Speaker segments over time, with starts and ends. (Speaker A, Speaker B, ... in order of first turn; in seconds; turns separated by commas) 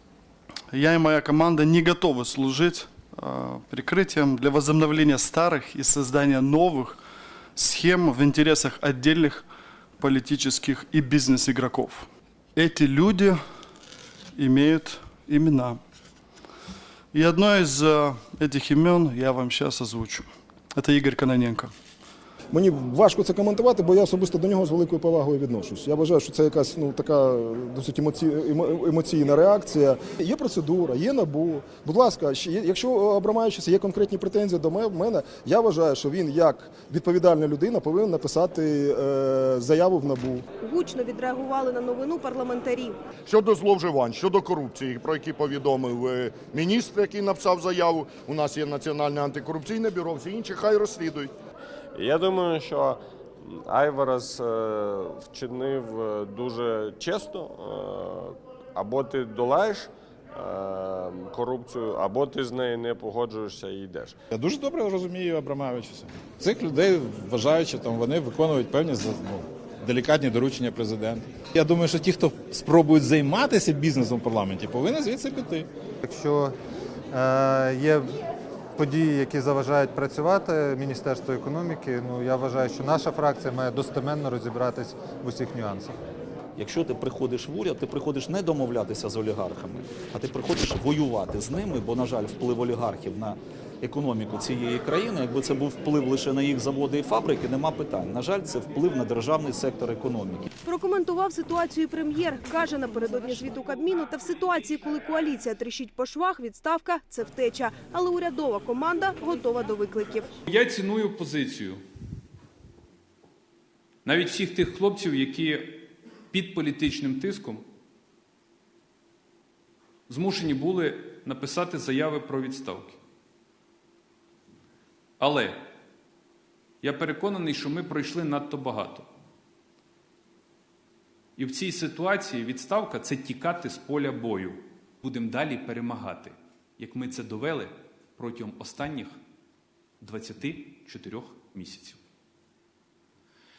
Speaker A: 0.7-7.0, Speaker A: 7.6-9.4, Speaker A: 10.0-13.4, Speaker A: 14.4-15.8, Speaker A: 17.1-21.7, Speaker B: 22.6-40.4, Speaker C: 40.6-43.0, Speaker D: 43.3-51.3, Speaker E: 52.0-64.2, Speaker F: 64.3-75.7, Speaker G: 76.0-76.5, Speaker G: 77.1-78.1, Speaker G: 78.8-85.9, Speaker H: 86.6-100.5, Speaker C: 100.7-110.3, Speaker I: 110.5-111.8, Speaker I: 114.1-117.6, Speaker I: 120.1-123.0, Speaker I: 125.2-125.6, Speaker I: 126.8-129.1, Speaker I: 131.4-139.2, Speaker I: 140.0-142.0